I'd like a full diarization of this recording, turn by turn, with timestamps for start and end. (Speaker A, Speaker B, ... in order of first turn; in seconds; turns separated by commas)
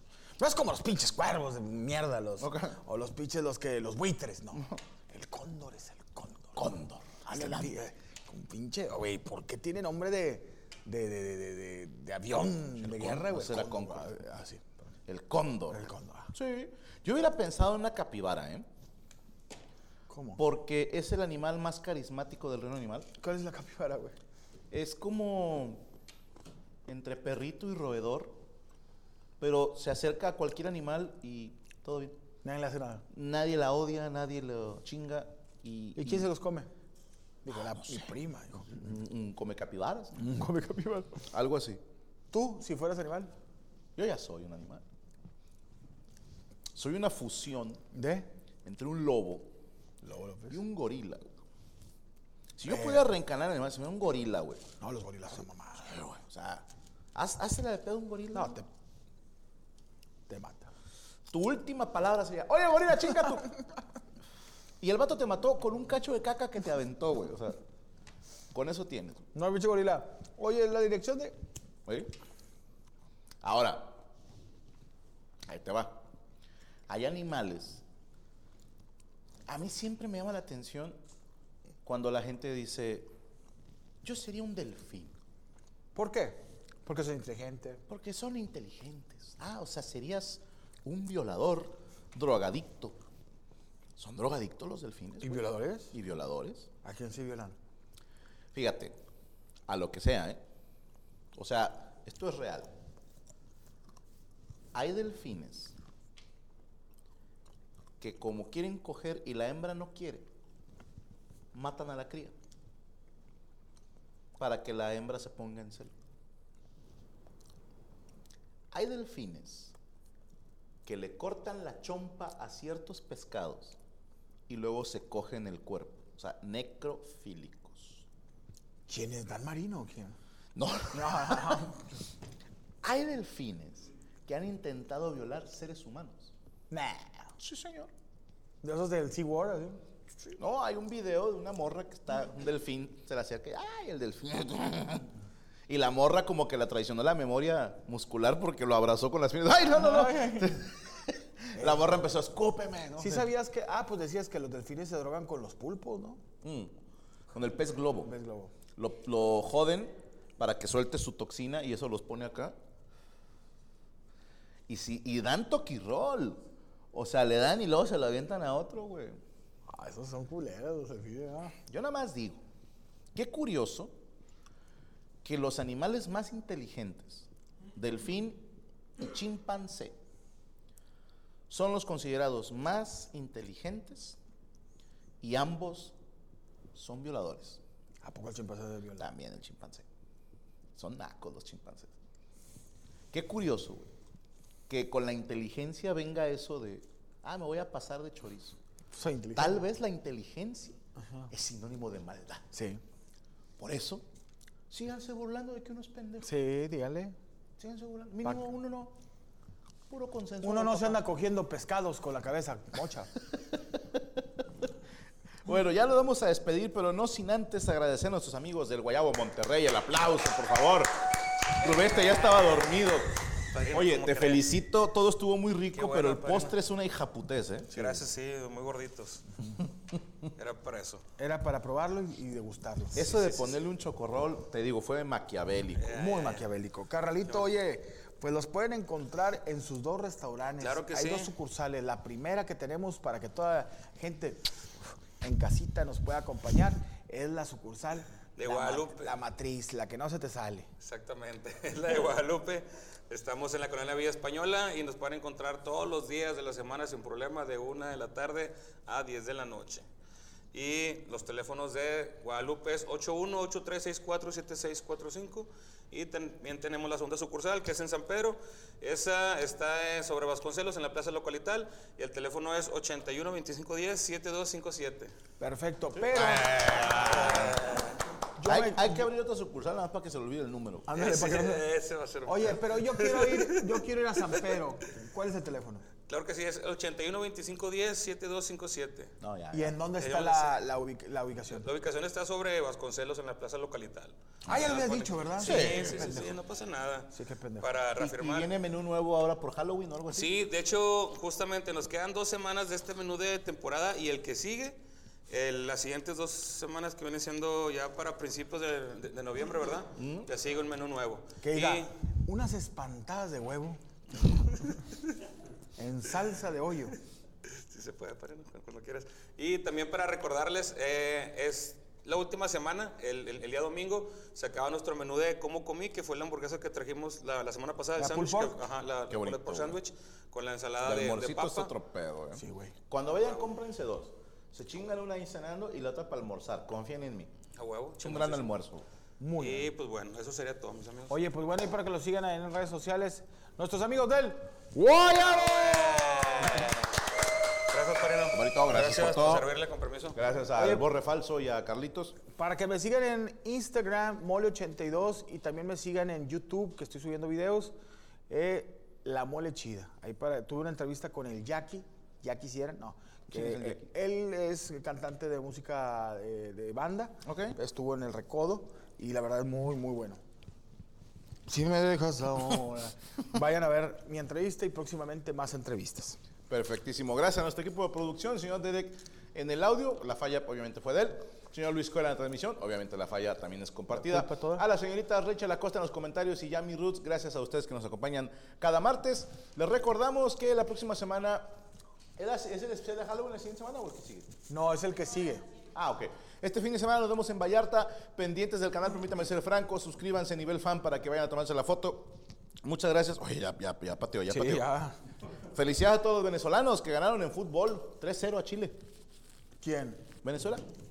Speaker A: 0.4-6.6, Speaker B: 2.4-2.8, Speaker B: 6.5-7.7, Speaker A: 7.2-14.9, Speaker B: 12.8-14.2, Speaker B: 15.1-18.7, Speaker A: 15.7-16.3, Speaker A: 20.1-20.4, Speaker B: 20.4-23.1, Speaker A: 23.2-24.1, Speaker B: 24.7-25.9, Speaker B: 26.9-28.4, Speaker B: 29.4-32.2, Speaker A: 32.4-33.0, Speaker B: 33.1-36.3, Speaker A: 35.9-36.7, Speaker A: 37.4-38.7, Speaker B: 37.5-38.1, Speaker B: 38.7-40.2, Speaker A: 40.2-41.2, Speaker B: 41.3-41.8, Speaker A: 42.3-43.3, Speaker B: 44.0-44.8, Speaker B: 46.7-47.8, Speaker A: 47.9-48.3, Speaker B: 48.6-49.5, Speaker A: 50.0-50.6, Speaker B: 50.5-51.3, Speaker B: 52.6-54.6, Speaker A: 52.7-53.1, Speaker A: 54.8-55.9, Speaker B: 55.8-58.6, Speaker A: 58.3-58.6, Speaker A: 60.3-60.7, Speaker B: 61.3-63.5, Speaker B: 64.8-67.6, Speaker B: 68.5-69.2, Speaker A: 69.3-71.4, Speaker B: 71.8-72.1, Speaker B: 73.4-74.0, Speaker B: 75.5-76.0, Speaker B: 76.9-77.8, Speaker B: 79.5-81.0, Speaker B: 81.8-83.1, Speaker B: 84.0-85.2, Speaker A: 85.9-87.8, Speaker B: 87.9-93.0, Speaker B: 94.0-96.7, Speaker A: 95.2-95.9, Speaker A: 96.8-97.5, Speaker B: 98.5-99.0, Speaker B: 99.7-100.4, Speaker B: 101.3-102.7, Speaker B: 104.7-105.8, Speaker B: 108.0-110.3, Speaker B: 111.5-112.3, Speaker B: 114.4-115.9, Speaker B: 118.7-119.7, Speaker B: 120.8-123.8, Speaker B: 124.5-128.1, Speaker A: 128.9-130.2, Speaker B: 130.5-131.6, Speaker A: 130.9-131.7, Speaker B: 132.8-136.3, Speaker A: 136.7-137.2, Speaker B: 137.4-137.9, Speaker A: 138.6-139.8, Speaker B: 140.4-145.1, Speaker B: 145.7-153.3, Speaker A: 149.7-150.5, Speaker A: 151.5-151.9, Speaker A: 152.9-156.2, Speaker B: 156.4-156.7, Speaker B: 157.3-158.1, Speaker A: 158.0-158.5, Speaker B: 158.8-162.5, Speaker B: 164.7-166.4, Speaker B: 166.9-169.2, Speaker A: 169.7-171.5, Speaker B: 171.7-172.4, Speaker B: 173.1-173.9, Speaker B: 175.2-178.4, Speaker B: 179.0-180.0, Speaker B: 181.5-184.2, Speaker B: 185.2-185.9, Speaker B: 186.7-187.6, Speaker A: 188.0-189.1, Speaker B: 189.0-189.8, Speaker B: 190.8-191.9, Speaker B: 193.1-193.9, Speaker B: 194.7-198.6, Speaker A: 198.9-199.6, Speaker B: 199.3-200.8, Speaker B: 201.3-202.5, Speaker A: 202.5-202.8, Speaker B: 203.6-204.0, Speaker B: 204.7-206.3, Speaker A: 206.2-207.2, Speaker B: 207.6-208.9, Speaker B: 209.9-211.0, Speaker A: 210.4-213.1, Speaker B: 215.4-220.9, Speaker B: 221.5-227.9, Speaker C: 223.5-224.5, Speaker C: 225.7-226.6, Speaker C: 227.7-229.2, Speaker C: 230.3-231.0, Speaker A: 231.2-233.1, Speaker B: 232.9-235.9, Speaker C: 233.1-233.6, Speaker C: 235.8-236.5, Speaker A: 235.9-244.5, Speaker C: 237.3-237.5, Speaker C: 240.6-241.3, Speaker A: 245.2-250.7, Speaker C: 248.3-249.2, Speaker C: 250.8-259.9, Speaker C: 260.5-275.1, Speaker A: 275.4-276.6, Speaker C: 276.1-277.9, Speaker B: 276.2-277.4, Speaker A: 278.4-279.0, Speaker B: 278.4-280.9, Speaker A: 280.9-281.6, Speaker C: 280.9-284.6, Speaker A: 282.2-285.9, Speaker C: 286.1-289.1, Speaker B: 289.2-289.8, Speaker A: 289.5-291.7, Speaker C: 289.9-290.6, Speaker C: 291.5-298.5, Speaker A: 294.4-296.4, Speaker B: 295.4-296.2, Speaker A: 297.1-297.7, Speaker B: 298.0-300.3, Speaker C: 300.1-311.9, Speaker B: 309.9-310.3, Speaker A: 311.4-313.8, Speaker A: 315.8-316.9, Speaker C: 317.5-331.7, Speaker A: 327.9-328.6, Speaker B: 329.1-329.8, Speaker B: 330.8-337.3, Speaker A: 332.4-332.8, Speaker C: 337.6-338.5, Speaker B: 338.0-338.9, Speaker A: 339.2-339.7, Speaker C: 339.4-341.2, Speaker A: 341.1-346.1, Speaker C: 345.5-346.7, Speaker C: 347.7-350.2, Speaker B: 348.3-349.4, Speaker B: 350.1-352.2, Speaker A: 350.6-350.9, Speaker A: 352.2-357.7, Speaker A: 358.3-370.2, Speaker B: 363.3-363.9, Speaker B: 367.2-367.6, Speaker A: 371.4-376.2, Speaker B: 376.5-391.5, Speaker A: 383.9-384.6, Speaker B: 392.2-394.3, Speaker A: 394.5-395.4, Speaker B: 395.7-404.6, Speaker A: 404.3-404.9, Speaker B: 405.5-408.8, Speaker A: 409.6-410.0, Speaker B: 410.2-410.6